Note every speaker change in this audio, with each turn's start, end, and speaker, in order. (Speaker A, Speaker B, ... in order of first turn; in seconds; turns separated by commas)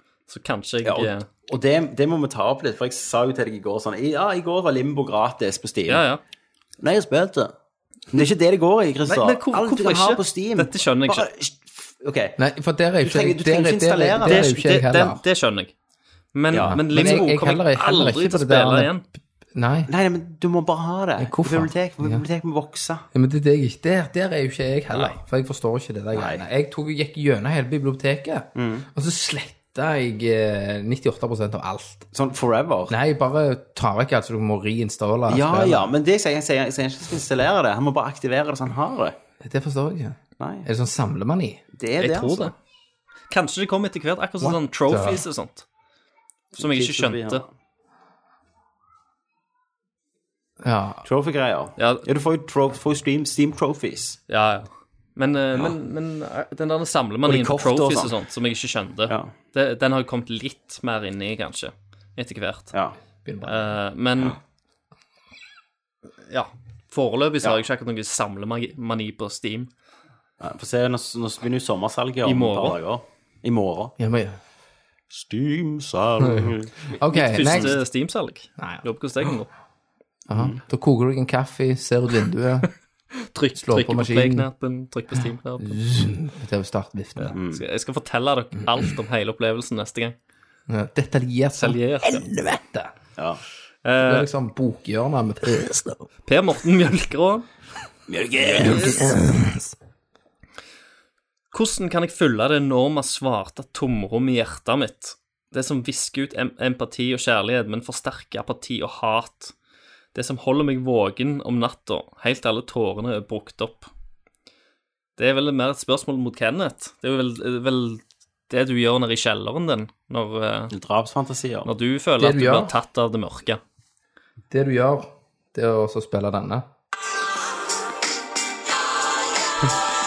Speaker A: 0.3-1.3, Speaker B: 0.8-6.0, Speaker A: 5.9-6.2, Speaker B: 6.8-7.5, Speaker B: 8.1-12.4, Speaker A: 9.1-11.3, Speaker C: 12.4-15.2, Speaker B: 13.0-14.5, Speaker A: 14.2-15.7, Speaker A: 16.3-19.0, Speaker B: 16.5-17.3, Speaker C: 16.6-18.9, Speaker C: 19.6-19.9, Speaker B: 19.9-23.0, Speaker C: 21.2-22.2, Speaker C: 23.1-32.1, Speaker B: 26.1-26.4, Speaker B: 28.6-28.9, Speaker B: 32.1-33.0, Speaker C: 32.9-35.9, Speaker B: 35.3-39.2, Speaker C: 39.4-41.6, Speaker B: 40.4-40.7, Speaker B: 41.7-42.5, Speaker A: 42.0-42.5, Speaker A: 43.3-45.6, Speaker C: 44.9-45.2, Speaker B: 46.6-47.5, Speaker A: 46.6-47.4, Speaker C: 50.6-51.0, Speaker B: 51.0-54.2, Speaker A: 51.8-52.1, Speaker A: 54.3-62.7, Speaker B: 57.2-58.1, Speaker B: 59.1-59.3, Speaker C: 63.3-63.7, Speaker A: 63.4-64.4, Speaker A: 66.3-69.7, Speaker B: 70.4-73.9, Speaker A: 72.2-72.8, Speaker C: 74.0-74.4, Speaker B: 75.1-77.8, Speaker C: 76.2-77.8, Speaker A: 77.0-79.5, Speaker C: 78.6-78.8, Speaker C: 80.3-82.7, Speaker B: 80.3-80.6, Speaker A: 83.3-85.8, Speaker C: 83.6-84.5, Speaker C: 85.6-87.4, Speaker A: 87.2-90.2, Speaker B: 87.3-87.6, Speaker C: 90.7-92.9, Speaker A: 91.6-92.3, Speaker B: 93.2-93.4, Speaker A: 93.8-94.3, Speaker C: 94.0-96.0, Speaker A: 96.3-97.5, Speaker B: 98.1-99.0, Speaker A: 98.4-99.2, Speaker C: 98.6-99.7, Speaker A: 101.5-109.5, Speaker A: 110.1-113.9, Speaker A: 115.2-120.7, Speaker B: 120.7-121.7, Speaker A: 121.7-123.6, Speaker C: 122.2-122.7, Speaker C: 124.5-126.7